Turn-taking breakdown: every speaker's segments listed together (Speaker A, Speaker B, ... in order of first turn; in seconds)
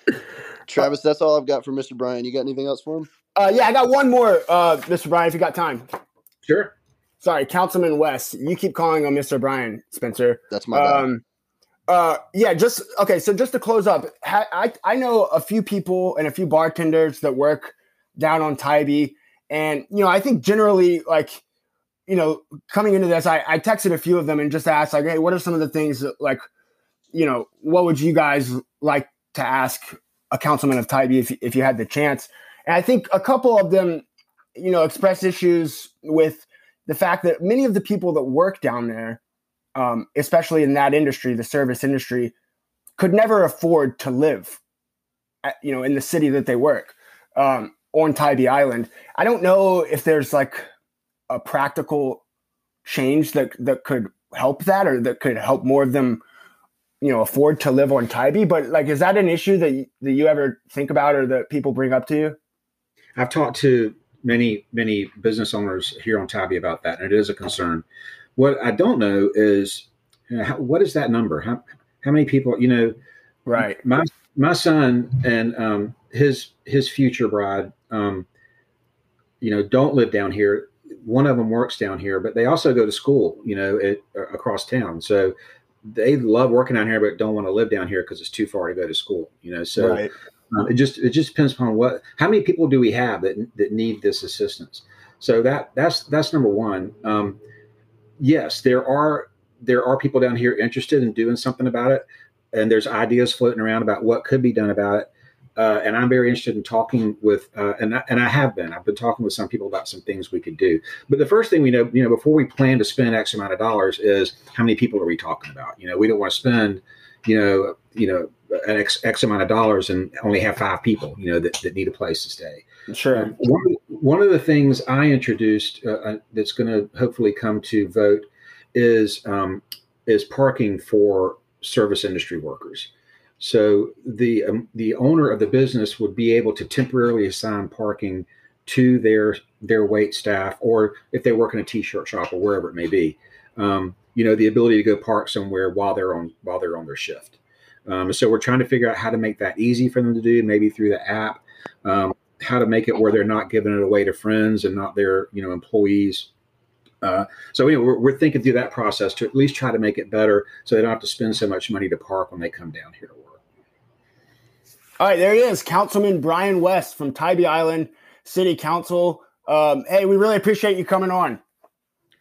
Speaker A: 0.7-3.1, 10.5-11.1
Speaker B: 3.4-5.9, 7.2-11.2, 11.9-21.4, 22.1-26.5, 27.1-34.0, 34.6-39.2, 39.8-42.3, 43.0-44.6, 45.4-50.7, 51.3-52.2, 52.9-56.2, 57.0-62.4, 73.5-73.8, 89.8-90.1, 122.9-123.3, 165.0-171.4
Speaker C: 6.5-6.7, 63.2-67.8, 68.4-73.0, 73.6-78.3, 79.4-97.4, 98.2-156.3, 157.0-163.4